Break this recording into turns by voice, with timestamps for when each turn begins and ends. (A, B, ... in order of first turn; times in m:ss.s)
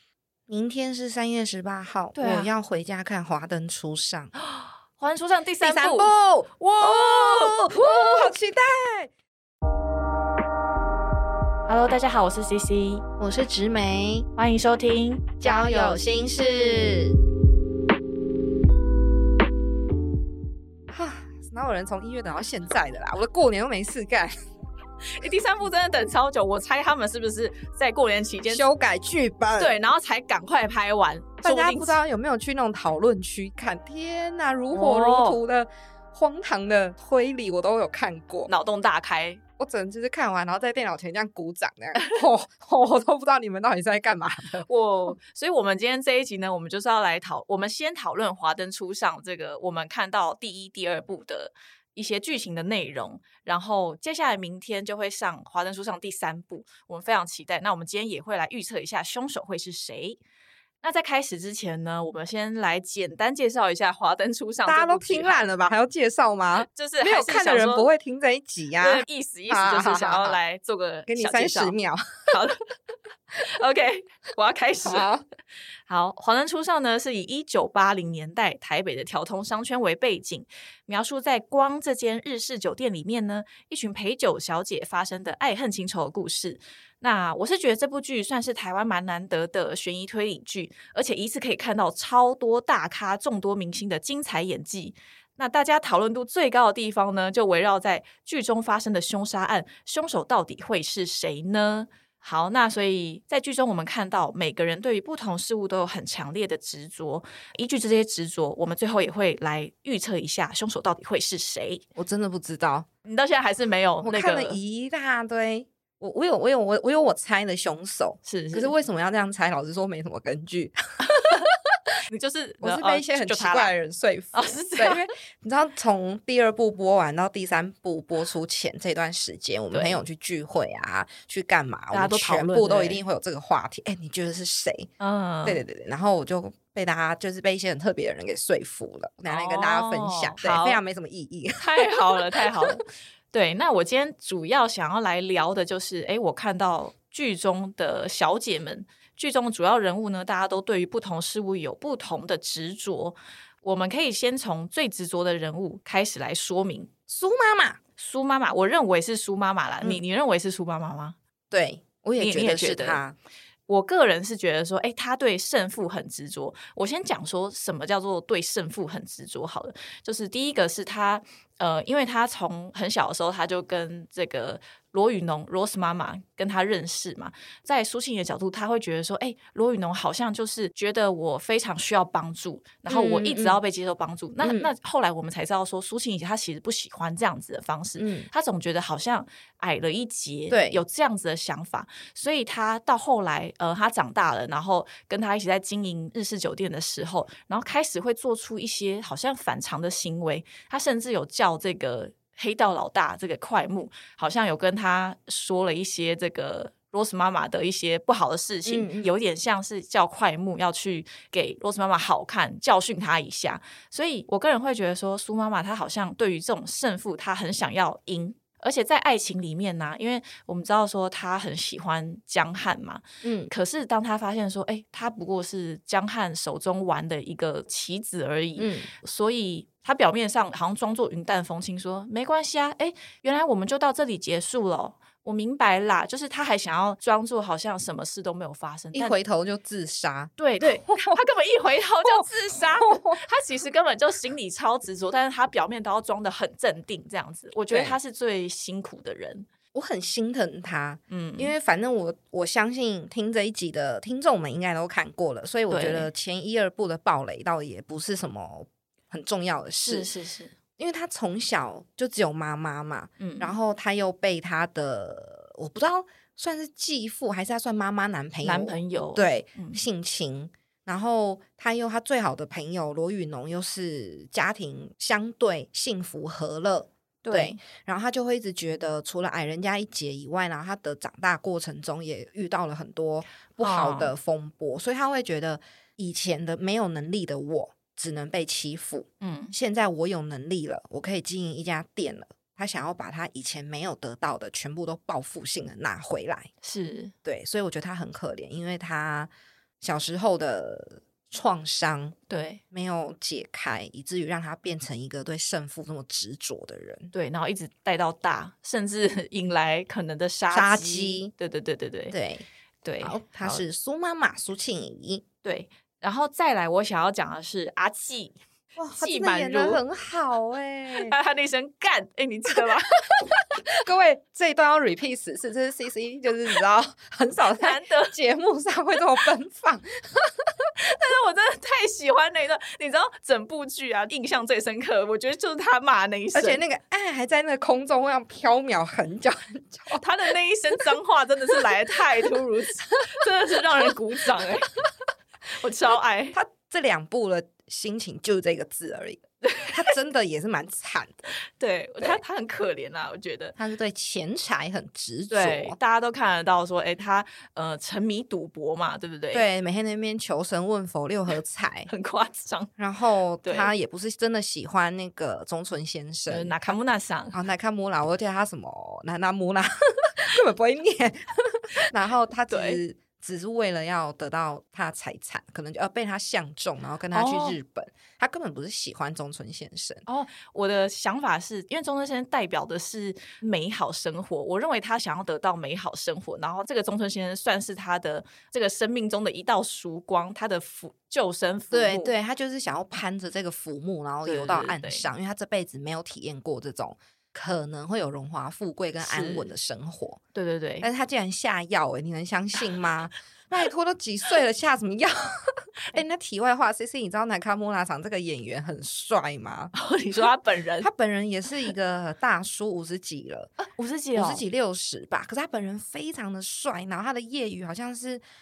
0:00.5-0:04.3 A
0:02.1-0:02.5 B
0:04.4-0:08.3 B
0:05.6-0:09.1 A
0:11.7-0:13.0 B
0:13.2-0:14.3 A
0:14.4-0:16.9 B
0:15.4-0:17.2 A
0:20.9-0:24.3 A
0:25.1-0:28.7 B
0:28.4-0:29.8 A
0:29.6-0:32.0 B
0:31.4-0:38.5 A
0:34.7-0:35.4 B
0:38.5-0:39.4 B
0:39.6-0:44.7 A
0:44.6-1:00.2 B
1:00.8-1:05.4 B
1:04.6-1:10.4 A
1:06.6-1:07.9 B
1:08.8-1:11.7 B
1:11.1-1:12.3 A
1:12.3-1:12.6 B
1:13.4-1:15.1 B
1:14.8-1:15.2 A
1:15.9-1:51.8 B
1:52.0-1:52.9 A
1:53.0-1:54.6 B
1:54.0-2:01.6 A
1:58.2-1:58.7 B
2:01.0-2:01.5 B
2:02.1-2:03.7 B
2:02.6-2:14.9 A
2:04.3-2:05.1 B
2:09.7-2:10.0 B
2:11.9-2:13.0 B
2:15.0-2:15.6 B
2:15.4-2:22.8 A
2:19.3-2:20.8 B
2:21.6-2:36.9 B
2:37.1-2:37.8 A
2:38.0-2:41.2 B
2:41.5-2:43.1 A
2:42.2-2:43.0 B
2:43.7-3:59.2 B
3:02.9-3:03.6 A
3:04.4-3:04.7 A
3:08.0-3:08.3 A
3:10.5-3:10.8 A
3:28.6-3:29.1 A
3:43.2-3:43.5 A
3:48.6-3:48.9 A
3:58.9-4:01.2 A
4:00.4-4:09.5 B
4:02.0-4:03.2 A
4:07.7-4:08.0 A
4:09.7-4:20.1 A
4:11.1-4:11.5 B
4:15.7-4:16.1 B
4:19.8-4:20.5 B
4:20.8-4:56.5 A
4:23.2-4:23.5 B
4:28.4-4:29.8 B
4:37.2-4:37.6 B
4:43.6-4:44.1 B
4:49.2-4:49.5 B
4:56.6-4:57.1 B
4:57.2-4:59.3 A
4:59.8-5:02.2 A
5:02.3-5:02.6 B
5:02.7-5:07.1 A
5:07.1-5:12.2 B
5:10.5-5:11.3 A
5:12.1-5:12.4 A
5:12.8-5:13.6 B
5:13.0-5:15.2 A
5:15.4-5:18.4 B
5:18.8-5:21.1 A
5:18.9-5:19.8 B
5:20.9-5:23.6 B
5:22.5-5:30.7 A
5:27.5-5:28.1 B
5:30.8-5:36.6 B
5:36.3-5:40.3 A
5:39.9-5:44.7 B
5:41.6-5:44.9 A
5:45.5-5:46.4 B
5:46.3-5:51.3 A
5:49.4-5:49.9 B
5:51.6-5:53.6 B
5:53.6-5:55.8 A
5:55.3-5:59.4 B
5:59.3-6:01.9 A
6:01.9-6:02.7 B
6:02.8-6:06.8 A
6:03.4-6:03.7 B
6:06.3-6:07.4 B
6:07.3-6:20.0 A
6:12.5-6:12.8 B
6:17.1-6:17.6 B
6:20.1-6:32.1 B
6:31.7-6:40.2 A
6:34.2-6:35.0 B
6:39.0-6:39.4 B
6:40.3-6:40.9 B
6:40.8-6:50.2 A
6:49.7-6:50.9 B
6:50.8-6:53.5 A
6:53.6-6:54.4 B
6:54.1-6:58.2 A